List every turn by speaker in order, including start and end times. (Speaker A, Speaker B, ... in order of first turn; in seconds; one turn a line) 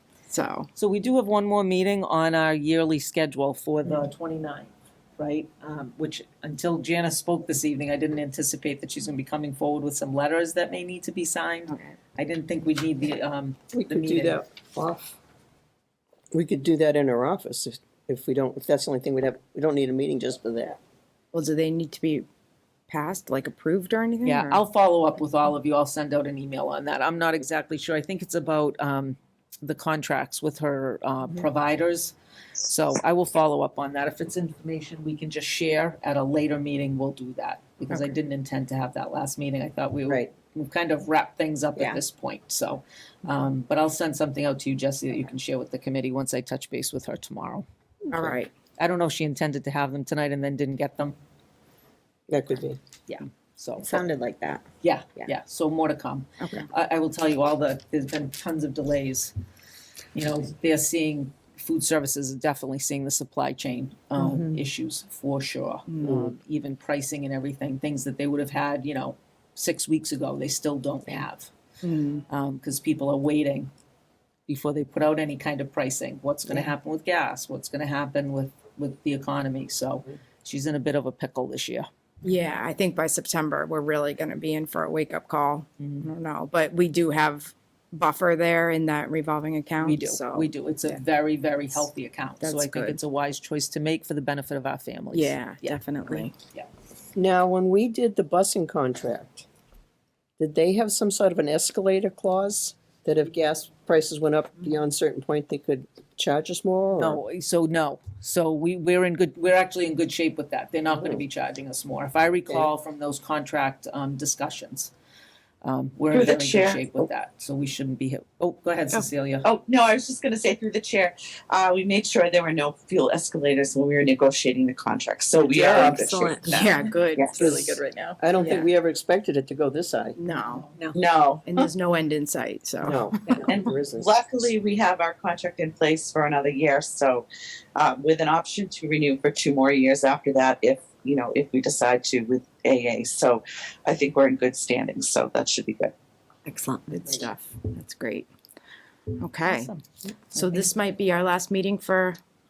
Speaker A: 0.3-0.7
Speaker B: 0.8-14.4
Speaker A: 11.7-11.9
Speaker C: 13.7-15.2
Speaker C: 16.3-20.8
Speaker A: 21.3-22.3
Speaker A: 22.9-24.6
Speaker B: 24.2-47.6
Speaker A: 48.1-48.5
Speaker C: 48.1-48.4
Speaker B: 48.8-51.2
Speaker C: 52.3-52.8
Speaker B: 53.1-54.0
Speaker D: 53.8-54.6
Speaker B: 54.8-59.3
Speaker B: 60.1-71.5
Speaker D: 64.2-64.6
Speaker A: 65.9-66.3
Speaker C: 66.0-66.3
Speaker A: 71.8-72.2
Speaker B: 72.3-73.7
Speaker B: 74.5-81.9
Speaker A: 82.2-91.0
Speaker B: 85.8-86.1
Speaker B: 89.8-96.7
Speaker A: 92.4-93.0
Speaker A: 95.1-96.3
Speaker C: 97.2-99.5
Speaker C: 100.4-107.2
Speaker B: 107.0-114.9
Speaker C: 110.9-111.2
Speaker B: 115.6-119.5
Speaker E: 116.1-117.1
Speaker E: 119.4-127.5
Speaker D: 125.4-126.8
Speaker C: 125.5-125.9
Speaker A: 126.5-128.7
Speaker D: 127.4-128.2
Speaker C: 127.4-130.2
Speaker A: 130.2-130.7
Speaker B: 130.7-131.0
Speaker E: 130.9-131.7
Speaker A: 131.4-133.1
Speaker C: 132.8-134.5
Speaker E: 133.5-145.9
Speaker A: 146.4-148.3
Speaker A: 149.2-149.7
Speaker B: 149.4-149.8
Speaker A: 150.3-152.2